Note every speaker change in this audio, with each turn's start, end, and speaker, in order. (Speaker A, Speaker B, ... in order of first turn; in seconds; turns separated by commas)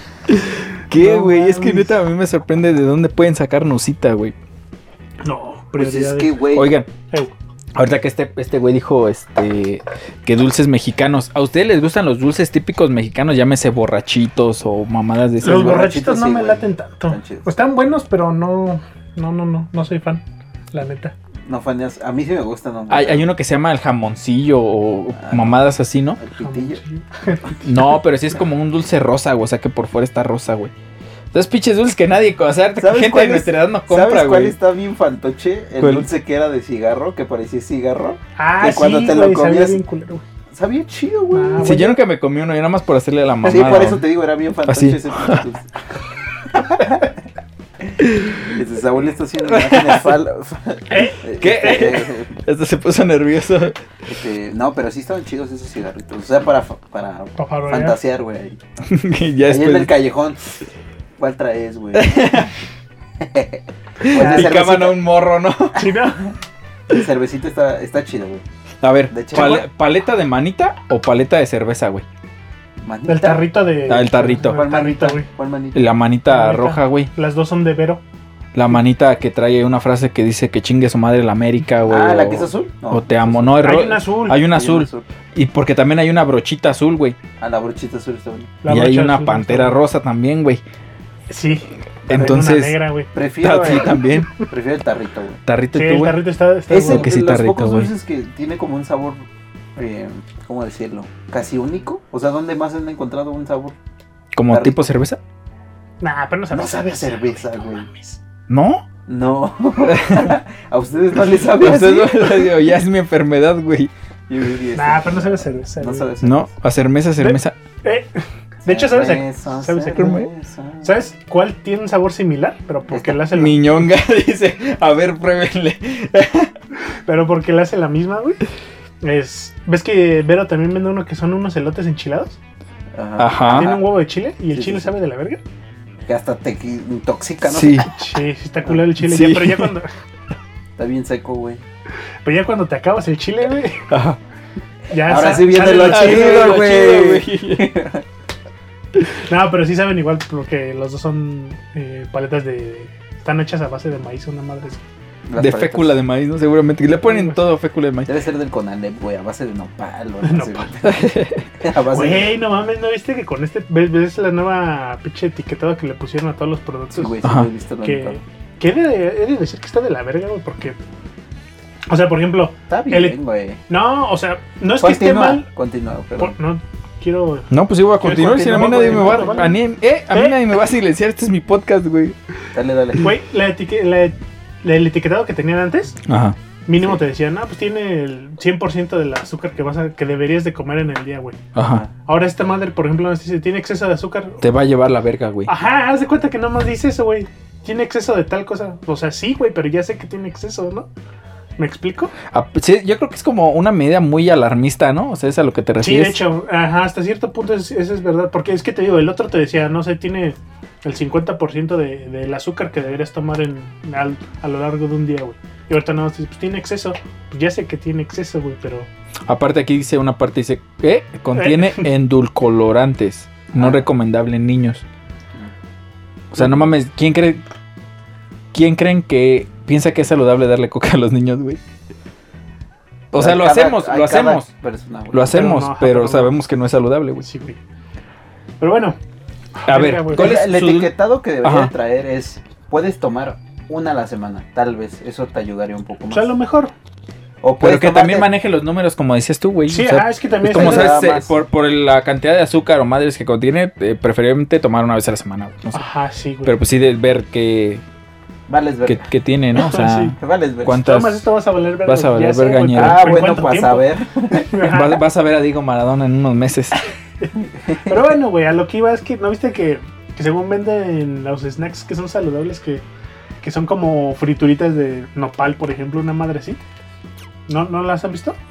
Speaker A: 0.3-4.3, Speaker B: 0.9-2.0, Speaker B: 5.2-6.4, Speaker C: 5.8-6.7, Speaker A: 6.5-6.9, Speaker A: 7.8-15.9, Speaker B: 15.4-21.1, Speaker C: 15.4-17.5, Speaker C: 21.5-23.3, Speaker A: 22.9-26.2, Speaker C: 25.1-25.6, Speaker C: 26.2-26.8, Speaker B: 26.4-27.6, Speaker A: 27.6-30.7, Speaker A: 31.3-34.6, Speaker C: 32.8-39.8, Speaker A: 35.8-36.1, Speaker B: 38.4-40.2, Speaker C: 40.5-41.8, Speaker B: 41.3-42.0, Speaker A: 41.6-44.0, Speaker C: 43.5-45.8, Speaker A: 44.7-45.5, Speaker C: 46.5-47.1, Speaker A: 48.0-48.5, Speaker C: 48.4-52.4, Speaker A: 49.4-50.2, Speaker B: 50.9-52.0, Speaker A: 51.4-53.8, Speaker C: 54.1-58.6, Speaker B: 57.4-58.0, Speaker A: 58.8-59.9, Speaker C: 59.5-60.6, Speaker C: 61.2-62.4, Speaker A: 61.9-62.5, Speaker C: 63.2-65.1, Speaker A: 64.0-65.9, Speaker B: 64.1-64.5, Speaker B: 65.8-66.2, Speaker C: 66.9-68.4, Speaker A: 68.8-72.0, Speaker C: 69.1-69.7, Speaker C: 72.8-73.5, Speaker B: 73.1-75.3, Speaker A: 73.9-74.6, Speaker C: 74.4-75.8, Speaker A: 75.7-77.1, Speaker B: 76.3-78.0, Speaker A: 78.5-87.2, Speaker C: 81.8-85.1, Speaker B: 83.6-84.4, Speaker C: 87.4-88.6, Speaker B: 88.6-89.8, Speaker A: 88.7-90.6, Speaker B: 91.3-94.2, Speaker A: 92.1-92.8, Speaker C: 93.1-95.4, Speaker A: 93.4-94.3, Speaker A: 95.5-96.2, Speaker B: 95.7-97.1, Speaker C: 96.7-99.2, Speaker A: 96.8-97.9, Speaker C: 99.8-103.8, Speaker A: 104.3-105.2, Speaker C: 104.5-104.8, Speaker B: 106.0-108.2, Speaker C: 106.5-107.9, Speaker A: 108.5-108.8, Speaker C: 109.1-112.6, Speaker A: 109.8-110.4, Speaker A: 111.6-113.9, Speaker C: 114.3-116.5, Speaker B: 114.8-116.1, Speaker A: 116.2-117.6, Speaker B: 117.2-118.1, Speaker B: 118.6-120.3, Speaker C: 118.7-121.0, Speaker A: 120.0-120.3, Speaker B: 120.8-123.7, Speaker C: 122.9-123.3, Speaker A: 123.3-126.5, Speaker B: 127.0-128.4, Speaker B: 129.0-132.4, Speaker C: 132.9-133.9, Speaker A: 133.2-133.7, Speaker B: 133.5-135.4, Speaker C: 134.5-134.9, Speaker C: 136.1-137.9, Speaker A: 137.4-137.9, Speaker B: 137.8-139.9, Speaker A: 139.0-139.8, Speaker C: 140.8-141.6, Speaker B: 142.2-143.9, Speaker A: 143.9-144.2, Speaker B: 144.9-146.6, Speaker C: 145.0-148.0, Speaker A: 145.8-147.7, Speaker B: 149.1-154.8, Speaker C: 155.3-156.0, Speaker A: 155.4-158.1, Speaker B: 157.0-157.4, Speaker C: 158.1-162.4, Speaker B: 160.2-160.7, Speaker A: 160.8-161.5, Speaker B: 161.9-167.2, Speaker C: 166.9-168.2, Speaker A: 167.2-167.5, Speaker B: 167.8-170.8, Speaker B: 171.9-173.2, Speaker C: 172.7-173.6, Speaker B: 173.7-175.5, Speaker C: 174.8-176.3, Speaker B: 176.2-179.6, Speaker A: 177.5-182.2, Speaker C: 178.1-179.5, Speaker B: 180.1-180.4, Speaker C: 182.5-183.1, Speaker B: 183.0-186.0, Speaker A: 186.1-186.4, Speaker B: 186.7-191.4, Speaker A: 191.6-191.9, Speaker C: 191.6-191.9, Speaker B: 192.1-194.4, Speaker A: 194.4-195.5, Speaker B: 195.5-200.9, Speaker B: 201.6-202.1, Speaker A: 202.3-206.2, Speaker B: 205.8-218.9, Speaker A: 219.3-224.8, Speaker B: 221.3-221.9, Speaker C: 223.5-223.9, Speaker A: 226.3-227.4, Speaker A: 228.5-231.6, Speaker A: 233.1-234.5, Speaker C: 233.1-235.5, Speaker A: 235.1-237.3, Speaker B: 235.3-236.3, Speaker B: 237.2-237.6, Speaker B: 238.6-239.0, Speaker B: 239.6-240.4, Speaker A: 239.7-241.7, Speaker C: 240.1-246.4, Speaker B: 246.1-246.7, Speaker C: 247.4-248.3, Speaker A: 247.6-255.8, Speaker B: 249.7-251.0, Speaker C: 250.5-251.4, Speaker B: 255.7-256.6, Speaker A: 256.4-257.8, Speaker C: 258.5-259.1, Speaker A: 258.9-261.3, Speaker B: 259.6-260.2, Speaker C: 260.2-260.9, Speaker B: 260.7-265.0, Speaker A: 261.9-263.3, Speaker C: 262.7-264.7, Speaker A: 264.6-266.8, Speaker C: 267.4-268.1, Speaker B: 267.9-272.9, Speaker B: 273.4-276.6, Speaker B: 277.5-278.4